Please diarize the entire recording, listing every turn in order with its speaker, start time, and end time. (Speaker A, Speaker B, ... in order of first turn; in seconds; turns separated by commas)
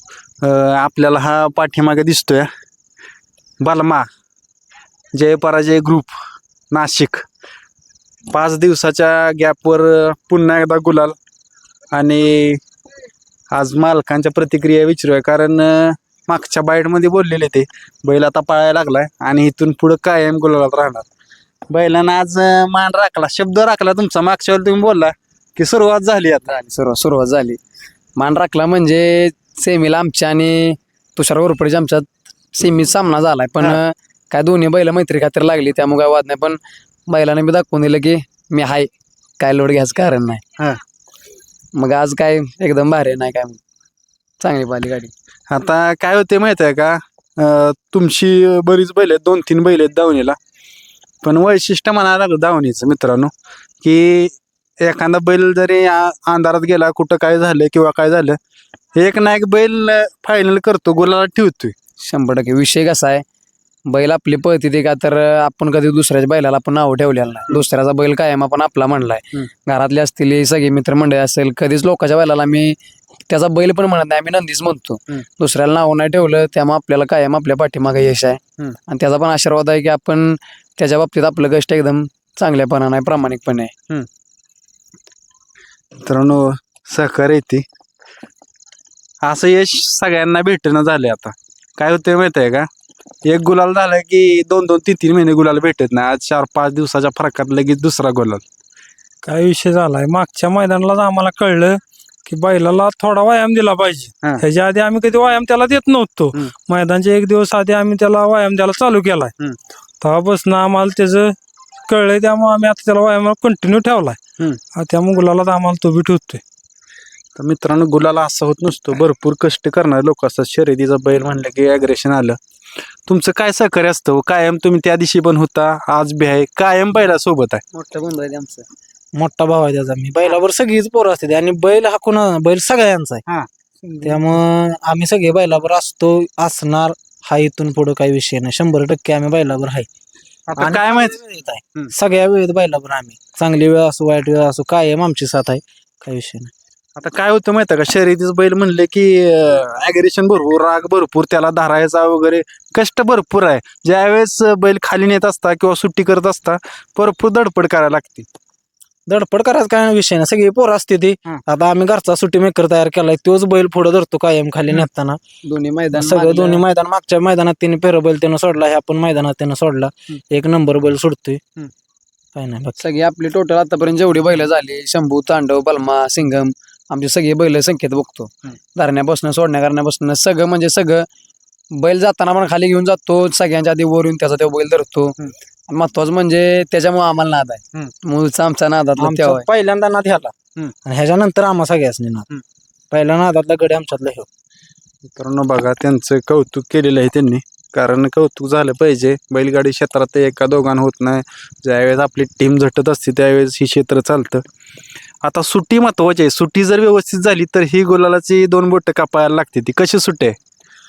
Speaker A: 0.4-2.5, Speaker A: 3.6-4.0, Speaker A: 5.1-6.1, Speaker A: 6.7-7.2, Speaker A: 8.3-11.1, Speaker A: 11.9-12.6, Speaker A: 13.5-21.1, Speaker A: 21.7-26.5, Speaker B: 26.5-27.6, Speaker B: 28.2-38.9, Speaker B: 39.4-40.4, Speaker B: 41.8-43.6, Speaker B: 44.4-45.1, Speaker A: 45.5-50.4, Speaker A: 51.2-58.4, Speaker A: 59.0-61.7, Speaker B: 62.0-63.2, Speaker B: 63.9-72.7, Speaker B: 73.3-83.7, Speaker A: 86.0-87.6, Speaker A: 89.2-92.7, Speaker A: 93.2-98.4, Speaker C: 99.2-109.3, Speaker C: 110.0-111.3, Speaker C: 111.9-114.2, Speaker C: 114.7-116.4, Speaker A: 117.4-122.4, Speaker A: 123.0-127.6, Speaker B: 127.7-128.7, Speaker D: 129.2-133.2, Speaker D: 134.0-139.9, Speaker A: 140.5-141.2, Speaker D: 140.6-146.5, Speaker A: 147.0-158.3, Speaker D: 159.1-165.2, Speaker B: 165.4-166.6, Speaker D: 165.9-171.4, Speaker D: 172.3-172.8, Speaker B: 172.8-181.1, Speaker B: 181.8-185.1, Speaker B: 185.7-189.4, Speaker D: 189.0-190.3, Speaker D: 190.8-192.3, Speaker D: 192.9-194.3, Speaker A: 195.1-204.4, Speaker A: 205.2-210.3